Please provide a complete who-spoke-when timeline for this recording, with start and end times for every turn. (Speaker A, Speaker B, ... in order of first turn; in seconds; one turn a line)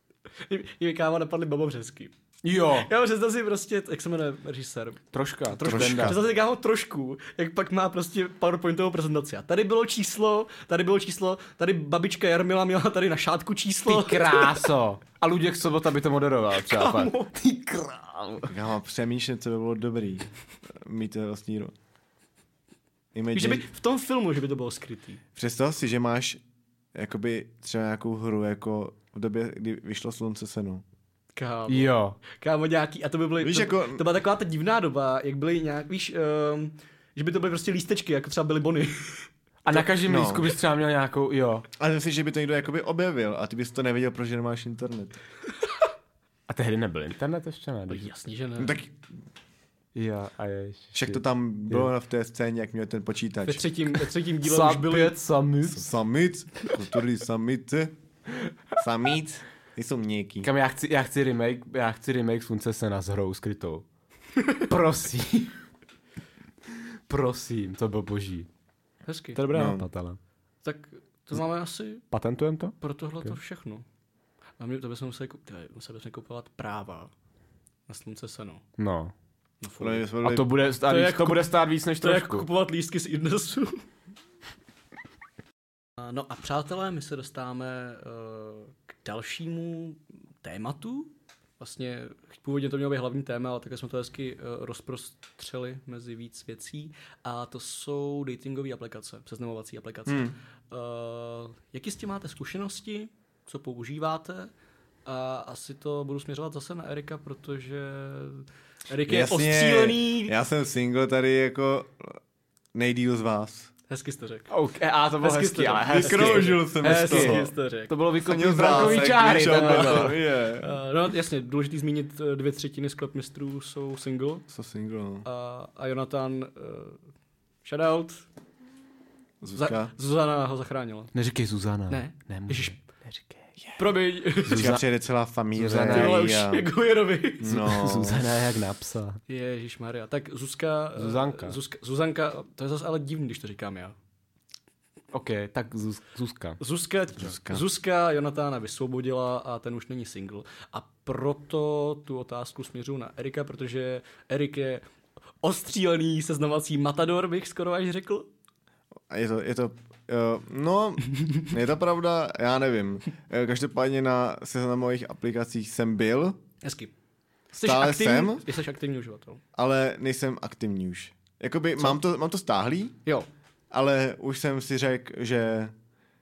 Speaker A: 0.4-2.1
Speaker B: 2.4-2.9
Speaker A: 2.7-14.7
Speaker B: 5.1-6.2
Speaker C: 5.6-6.2
Speaker B: 13.9-18.5
Speaker A: 16.6-17.3
Speaker C: 18.4-21.7
Speaker C: 23.1-23.6
Speaker A: 23.3-25.2
Speaker C: 25.3-26.4
Speaker C: 26.9-30.8
Speaker A: 31.4-39.3
Speaker B: 31.7-32.2
Speaker C: 33.4-34.0
Speaker B: 39.6-41.6
Speaker C: 40.0-40.5
Speaker C: 41.8-45.1
Speaker B: 46.5-48.1
Speaker A: 47.9-48.8
Speaker C: 48.6-49.0
Speaker B: 49.9-51.9
Speaker C: 50.9-53.6
Speaker A: 53.4-55.2
Speaker B: 54.4-55.9
Speaker C: 55.7-57.9
Speaker C: 58.8-60.5
Speaker B: 60.4-63.8
Speaker B: 64.5-65.5
Speaker B: 67.1-68.5
Speaker A: 69.0-69.4
Speaker B: 69.3-70.2
Speaker C: 69.5-69.9
Speaker A: 70.6-72.0
Speaker B: 72.1-73.4
Speaker A: 72.8-73.8
Speaker A: 74.6-77.1
Speaker A: 77.9-78.6
Speaker B: 78.8-79.1
Speaker A: 79.6-80.1
Speaker C: 79.8-80.5
Speaker B: 80.2-82.5
Speaker A: 80.8-83.8
Speaker A: 86.0-104.5
Speaker C: 100.1-100.4
Speaker A: 105.0-110.4
Speaker C: 109.0-112.2
Speaker C: 112.7-113.7
Speaker A: 113.9-114.5
Speaker B: 114.5-120.2
Speaker A: 115.2-124.4
Speaker C: 115.9-117.5
Speaker C: 118.2-120.8
Speaker C: 124.5-125.2
Speaker A: 125.2-127.0
Speaker A: 127.6-128.2
Speaker C: 129.4-129.9
Speaker A: 129.6-131.1
Speaker B: 131.1-133.4
Speaker A: 131.9-132.8
Speaker A: 133.8-134.7
Speaker B: 134.4-134.8
Speaker C: 134.5-136.7
Speaker B: 135.6-136.2
Speaker A: 135.9-137.6
Speaker C: 137.4-138.3
Speaker B: 137.4-139.2
Speaker A: 139.3-143.9
Speaker B: 140.9-141.6
Speaker B: 145.1-146.6
Speaker A: 146.6-154.8
Speaker C: 147.2-147.6
Speaker A: 155.4-158.3
Speaker C: 159.1-166.4
Speaker A: 161.2-161.4
Speaker A: 166.6-166.9
Speaker A: 167.5-169.4
Speaker C: 167.6-168.4
Speaker C: 169.6-172.9
Speaker C: 173.7-175.7